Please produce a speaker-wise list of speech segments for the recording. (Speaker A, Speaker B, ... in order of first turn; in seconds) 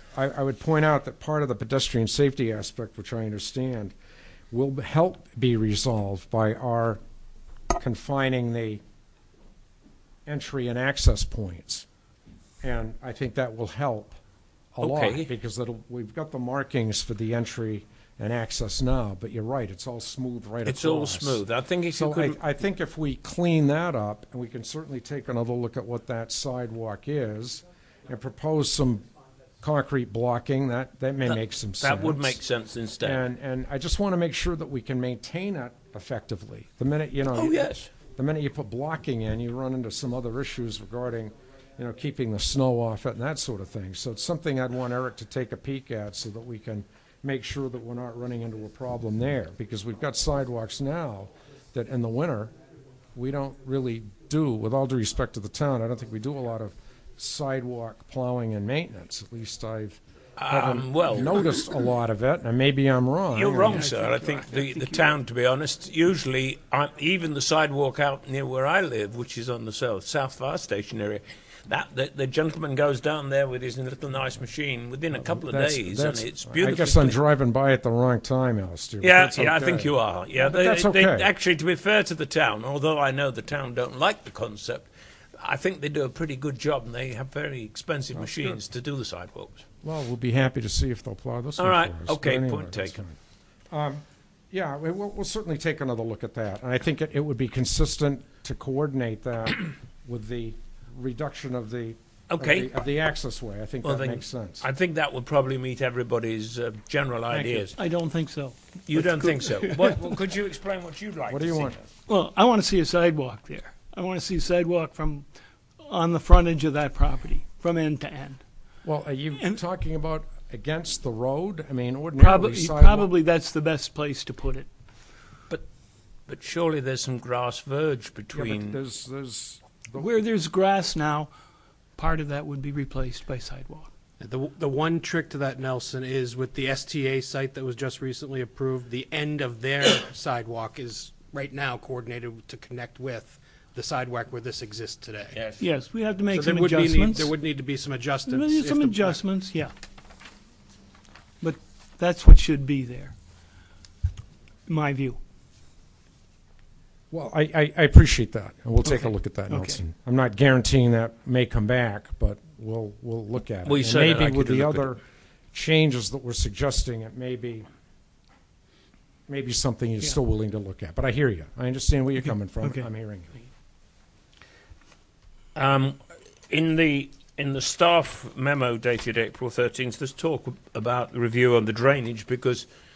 Speaker A: 0.1-3.9, 4.5-7.0, 7.8-8.8, 10.2-11.8, 12.6-14.2, 14.7-29.0, 29.6-32.4, 33.0-52.5, 53.1-63.9, 75.2-81.3, 88.1-88.6, 89.8-93.2, 93.7-104.7, 107.3-107.7, 111.3-111.8, 118.8-123.1, 128.3-130.1, 157.1-165.0, 165.5-167.7, 169.3-173.4
Speaker B: 14.8-15.3, 20.6-22.4, 31.2-33.2, 37.3-37.9, 60.4-61.4, 63.3-77.2, 79.0-89.6, 91.6-93.0, 102.3-102.7, 103.8-107.7, 108.9-111.8, 126.3-128.8, 145.3-145.6, 163.6-164.9, 175.5-182.7
Speaker C: 63.7-65.0, 107.8-109.8, 112.1-115.2, 115.8-118.4, 122.2-124.7, 129.9-131.3, 132.0-133.9, 145.6-147.3, 148.3-149.7, 151.4-153.1, 154.7-155.2, 158.8-159.8, 172.6-172.9
Speaker D: 134.2-145.4, 146.3-149.2